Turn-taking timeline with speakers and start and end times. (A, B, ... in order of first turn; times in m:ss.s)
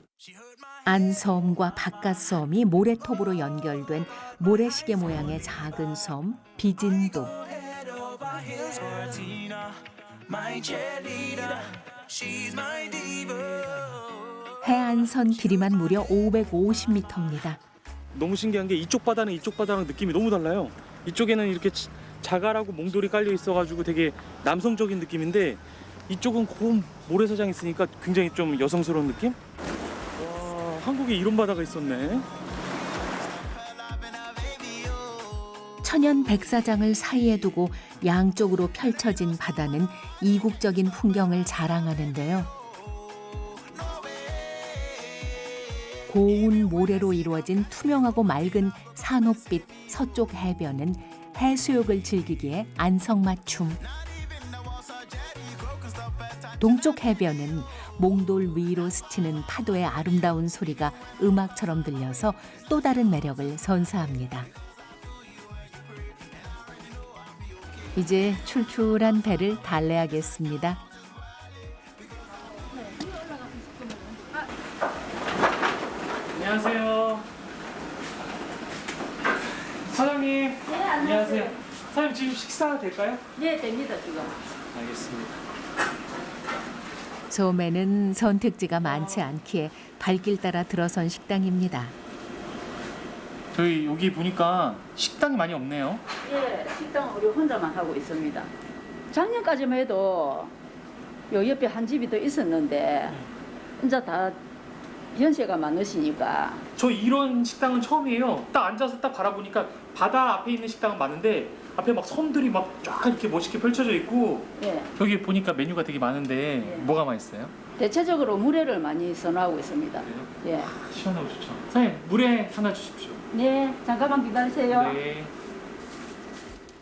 0:00.9-0:07.4 A
0:14.6-0:17.6 A
0:18.1-0:29.4 B
0:30.2-0:32.3 B
0:35.8-0:42.5 A
0:46.1-0:53.8 A
0:56.6-1:04.5 A
1:08.0-1:10.8 A
1:12.8-1:14.4 C
1:16.3-1:17.3 B
1:19.9-1:23.2 B
1:20.7-1:21.6 C
1:23.4-1:24.4 C
1:24.7-1:25.4 B
1:27.3-1:32.0 A
1:33.5-1:36.0 B
1:36.2-1:38.5 C
1:39.1-1:40.5 C
1:41.3-1:43.2 C
1:43.8-1:44.4 C
1:45.2-1:46.6 C
1:46.8-1:57.5 B
1:54.6-1:54.9 C
1:56.6-1:56.9 C
1:57.8-2:00.7 C
2:00.0-2:03.2 B
2:03.3-2:05.0 C
2:04.7-2:05.3 B